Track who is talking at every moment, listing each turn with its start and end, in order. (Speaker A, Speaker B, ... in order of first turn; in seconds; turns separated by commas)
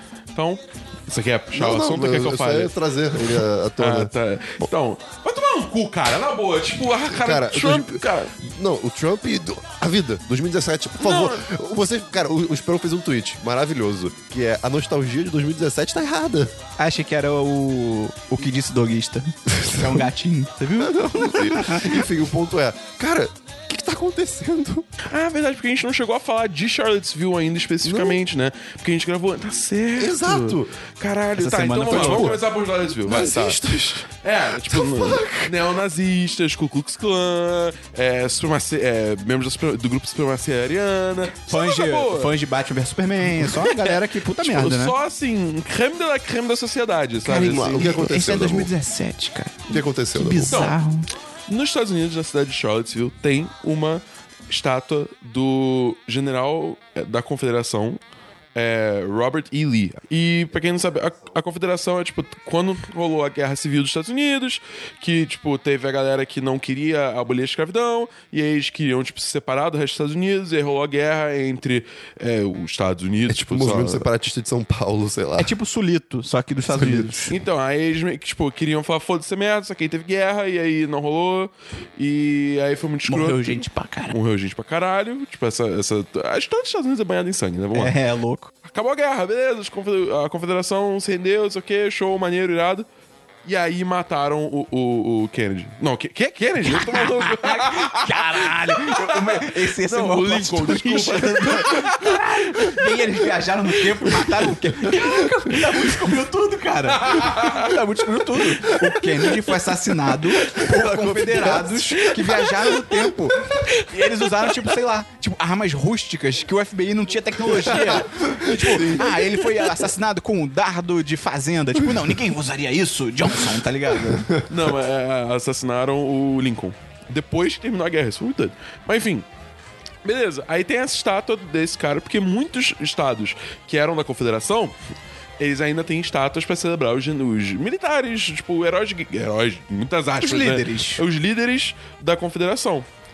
Speaker A: 0.3-8.3, Speaker B: 1.5-4.7, Speaker B: 7.1-16.5, Speaker A: 11.0-11.4, Speaker C: 16.8-22.1, Speaker B: 19.6-20.0, Speaker B: 20.8-24.9, Speaker A: 25.1-42.3, Speaker B: 27.8-28.2, Speaker B: 30.0-30.7, Speaker C: 31.4-32.4, Speaker B: 31.9-32.4, Speaker B: 32.9-35.6, Speaker C: 41.5-44.9, Speaker A: 43.3-47.9, Speaker C: 47.2-51.1, Speaker B: 47.3-48.7, Speaker B: 49.7-50.6, Speaker A: 50.5-50.8, Speaker A: 51.5-58.0, Speaker A: 58.5-74.1, Speaker B: 73.3-75.5, Speaker C: 75.4-77.3, Speaker B: 76.7-77.3, Speaker A: 77.3-88.0, Speaker C: 83.1-84.2, Speaker C: 87.8-88.5, Speaker A: 88.7-92.9, Speaker A: 93.5-103.2, Speaker C: 96.6-124.3, Speaker A: 103.9-105.9, Speaker A: 106.9-107.8, Speaker A: 110.5-110.8, Speaker B: 110.8-111.8, Speaker A: 112.1-114.6, Speaker B: 117.7-119.5, Speaker B: 124.1-124.4, Speaker A: 124.5-129.3, Speaker A: 130.0-134.8, Speaker A: 135.4-142.9, Speaker C: 140.2-141.0